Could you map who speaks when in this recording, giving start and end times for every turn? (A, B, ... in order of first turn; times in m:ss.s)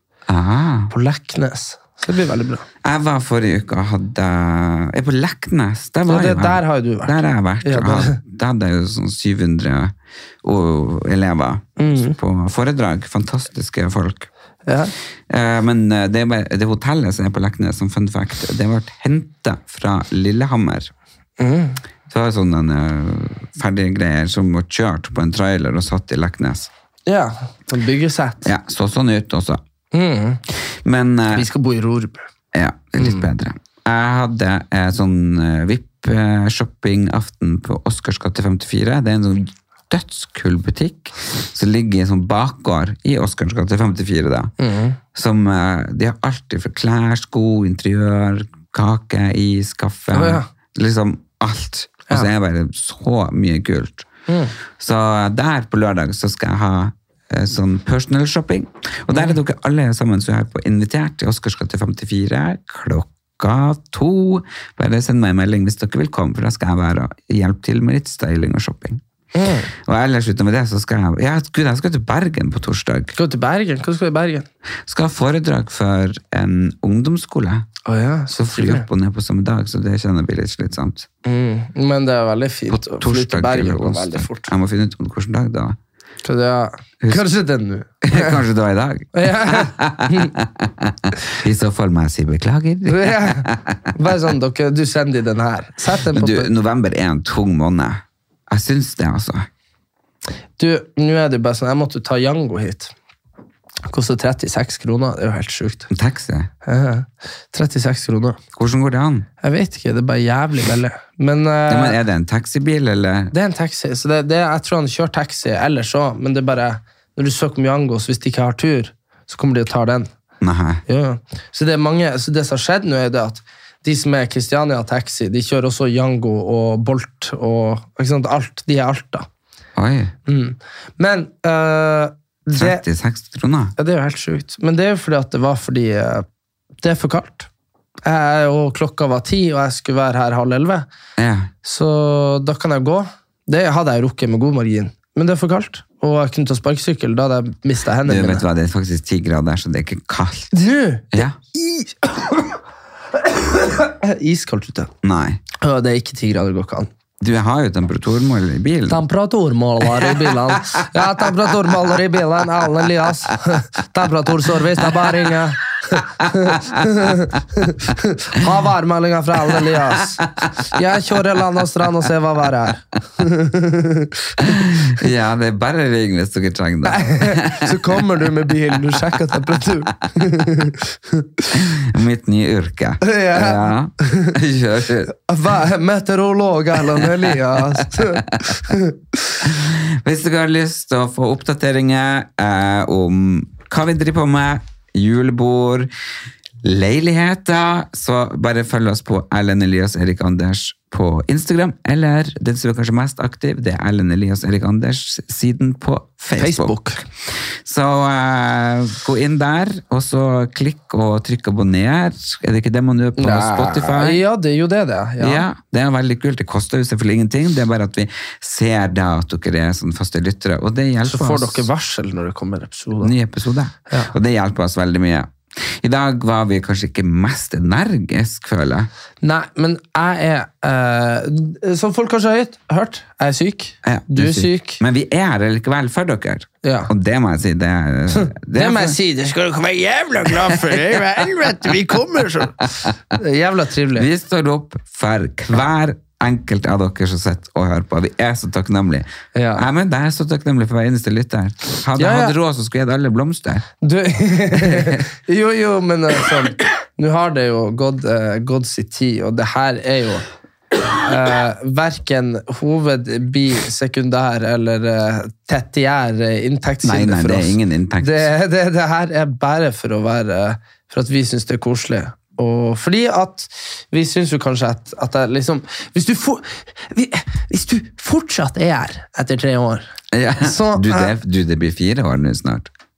0:00.3-0:00.9 A
0:00.9-0:02.7 B
0:02.8-0:14.3 A
0:06.1-0:08.2 B
0:11.8-0:12.2 B
0:14.7-0:14.9 B
0:15.3-0:20.9 A
0:21.4-0:21.8 B
0:22.1-0:26.7 A
0:27.1-0:28.5 B
0:28.4-0:29.6 A
0:29.9-0:30.4 B
0:30.8-0:31.5 A
0:31.3-0:32.2 B
0:32.5-0:44.5 A
0:33.0-0:33.2 B
0:44.6-0:45.0 B
0:45.1-0:54.1 A
0:50.1-0:50.5 B
0:54.3-0:54.5 B
0:54.8-1:09.0 A
0:59.1-0:59.4 B
1:09.4-1:09.7 B
1:09.7-1:13.2 A
1:13.2-1:14.5 B
1:14.8-1:17.7 A
1:17.8-1:18.9 B
1:18.3-1:21.1 A
1:21.2-1:24.5 B
1:22.7-1:25.8 A
1:26.2-1:28.4 B
1:27.0-1:27.3 A
1:28.0-1:33.8 A
1:29.1-1:30.3 B
1:32.9-1:36.5 B
1:36.1-1:39.5 A
1:40.6-1:42.9 B
1:43.9-1:45.9 B
1:45.9-1:46.5 A
1:46.6-1:48.4 B
1:48.6-1:49.3 A
1:49.4-1:52.0 B
1:51.7-1:53.3 A
1:53.3-2:00.1 B
2:00.4-2:00.8 A
2:00.9-2:09.3 B
2:09.8-2:10.1 A
2:10.3-2:12.8 B
2:12.6-2:13.8 A
2:13.8-2:16.3 B
2:16.8-2:17.5 B
2:18.0-2:20.9 B
2:21.2-2:21.5 A
2:21.6-2:28.4 B
2:28.0-2:30.6 A
2:30.5-2:32.6 B
2:33.2-2:34.9 B
2:35.0-2:35.4 A
2:35.6-2:36.9 B
2:37.2-2:39.0 A
2:38.9-2:54.4 B
2:40.0-2:40.6 A
2:44.9-2:45.2 A
2:46.2-2:47.1 A
2:49.5-2:50.5 A
2:54.4-2:58.1 A
2:56.8-3:01.5 B
3:01.5-3:05.1 A
3:03.0-3:04.3 B
3:05.3-3:09.0 B
3:06.9-3:08.8 A
3:09.4-3:15.9 A
3:16.6-3:26.8 A
3:26.4-3:27.0 B
3:27.6-3:34.2 A
3:33.2-3:35.5 B
3:35.2-3:41.7 A
3:41.0-3:43.1 B
3:43.0-3:48.9 A
3:49.2-3:54.8 B
3:53.8-3:59.0 A
3:56.6-3:56.9 B
3:58.2-4:02.6 B
4:00.3-4:01.7 A
4:02.6-4:02.9 A
4:03.1-4:04.1 B
4:03.9-4:13.7 A
4:09.4-4:09.7 B
4:12.0-4:12.4 B
4:13.8-4:20.2 B
4:14.5-4:15.0 A
4:21.0-4:39.8 B
4:26.8-4:28.3 A
4:40.1-4:42.7 A
4:40.4-4:41.1 B